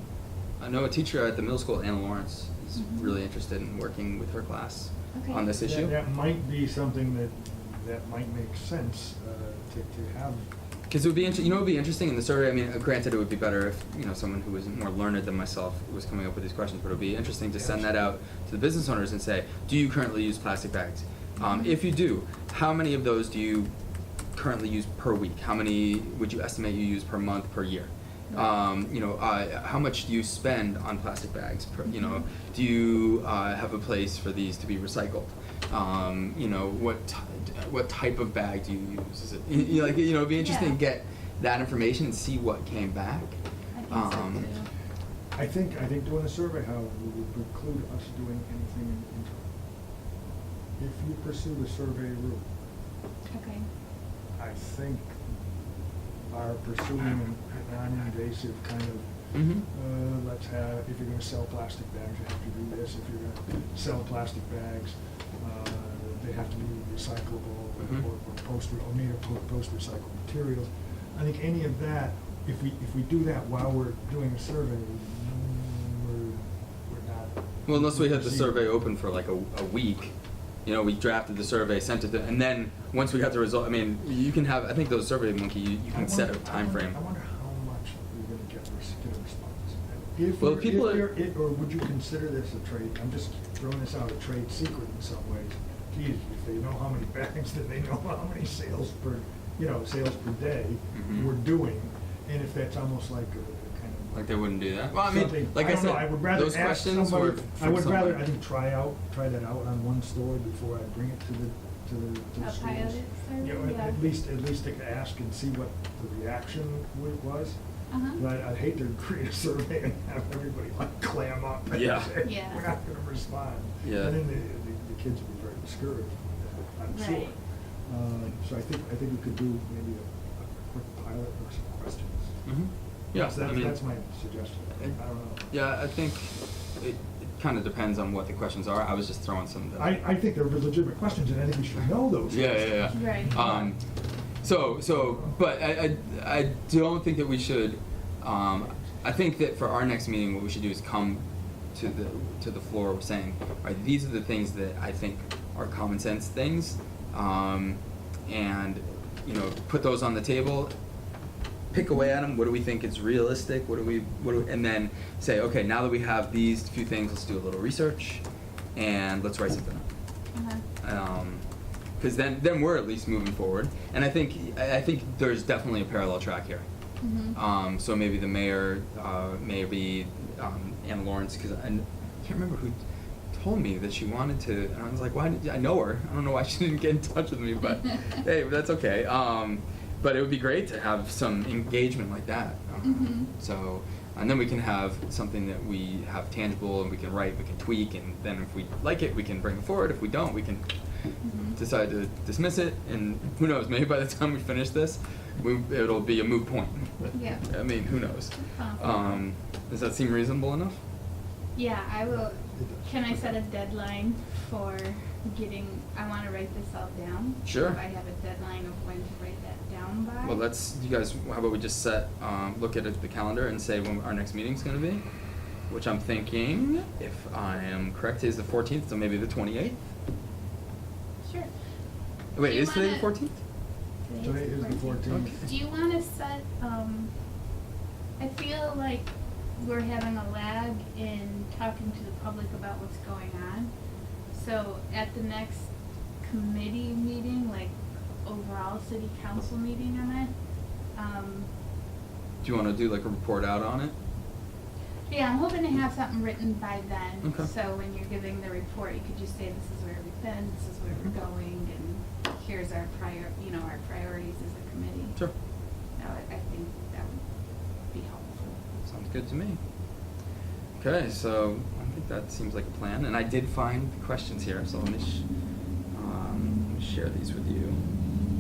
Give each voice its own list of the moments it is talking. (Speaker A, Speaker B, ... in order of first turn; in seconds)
Speaker A: 0.6-6.0, 10.9-23.7, 24.3-44.5, 59.3-59.6, 67.8-68.1, 77.7-87.0, 90.4-91.1, 100.9-101.3, 104.1-108.2, 121.7-122.1, 123.8-124.2, 132.5-133.8, 135.5-140.0, 142.3-143.8, 144.4-160.7, 161.7-168.2, 168.8-169.9, 170.8-171.4, 172.0-176.7, 177.3-182.7, 183.3-200.7, 201.6-210.8, 217.4-217.8, 220.2-225.0, 225.7-229.8, 232.3-233.4, 235.1-235.5, 252.4-253.9, 257.2-257.5, 268.8-269.6, 270.8-275.3, 275.9-277.8
Speaker B: 2.8-3.2, 5.1-5.5, 11.2-11.6, 21.4-21.8, 31.9-32.2, 39.6-40.8, 43.7-44.7, 53.3-53.7, 112.4-114.0, 117.9-118.2, 122.2-122.6, 126.9-127.4, 142.9-143.3, 170.3-170.6, 177.0-177.4, 192.8-193.3, 201.2-201.6, 207.1-207.6, 208.3-209.1, 211.6-220.4, 231.2-231.5, 232.4-233.1, 234.1-237.1, 238.2-243.7, 244.3-245.7, 246.2-250.3, 250.9-251.5, 255.1-265.3, 265.9-268.6
Speaker C: 5.6-10.5, 17.5-18.1, 45.4-49.5, 50.8-52.5, 54.4-55.3, 56.3-78.7, 85.9-104.4, 105.0-117.6, 118.2-132.5, 133.1-135.6, 139.8-143.8, 144.8-145.4, 212.1-213.4, 234.2-235.5